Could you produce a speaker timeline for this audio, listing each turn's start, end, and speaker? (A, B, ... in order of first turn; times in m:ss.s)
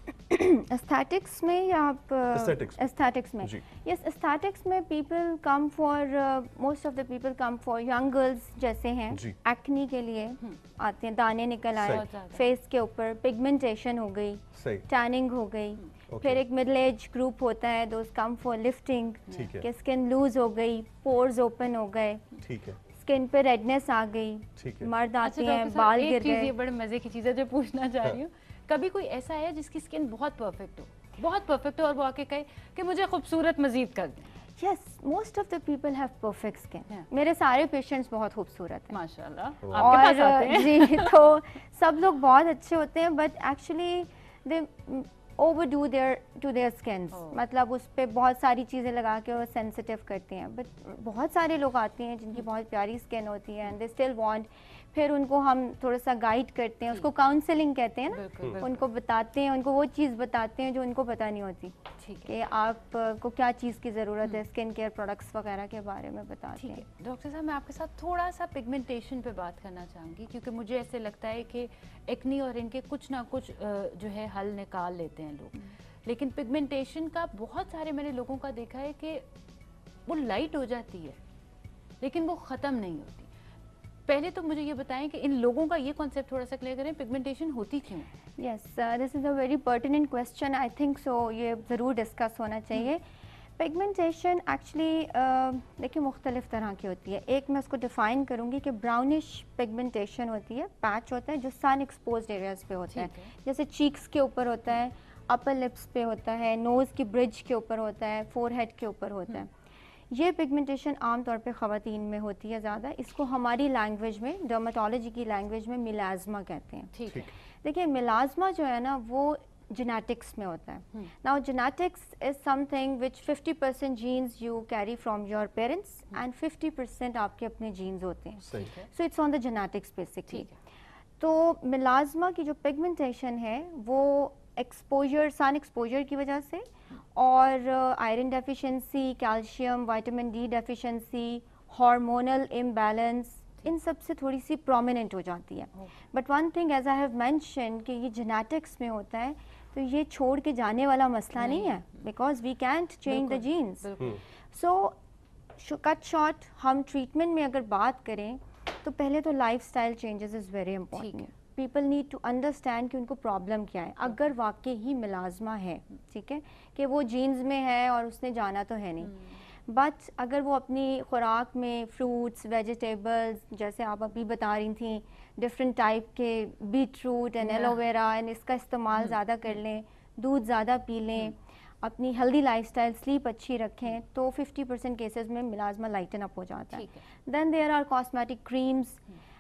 0:00.3-0:22.3 A
0:02.3-0:02.9 B
0:09.1-0:09.4 B
0:11.8-0:12.0 B
0:11.8-0:12.4 C
0:14.6-0:14.8 B
0:16.1-0:16.4 B
0:19.3-0:19.7 B
0:22.4-0:22.8 B
0:22.9-0:26.5 A
0:24.6-0:24.9 B
0:25.2-0:34.3 C
0:34.6-0:39.0 A
0:38.9-0:41.2 C
0:39.6-0:40.0 B
0:39.7-1:06.8 A
0:47.1-0:47.4 C
0:58.1-0:58.8 C
1:02.0-1:02.3 C
1:06.5-1:19.2 C
1:20.1-1:21.2 C
1:22.0-1:23.3 C
1:24.1-1:28.1 C
1:28.4-1:33.0 A
1:33.6-1:49.5 A
1:42.9-1:43.3 C
1:50.1-1:56.9 A
1:56.9-1:57.3 C
1:57.6-2:10.5 A
2:08.5-2:08.7 B
2:08.6-2:08.9 C
2:10.3-2:10.5 C
2:11.2-2:33.9 A
2:31.4-2:32.0 C
2:33.1-2:34.2 C
2:34.5-2:35.0 A
2:35.6-2:49.1 A
2:40.9-2:41.3 C
2:49.0-2:49.4 C
2:49.7-3:09.0 A
2:57.4-2:57.8 C
2:58.9-2:59.5 C
3:06.7-3:07.0 C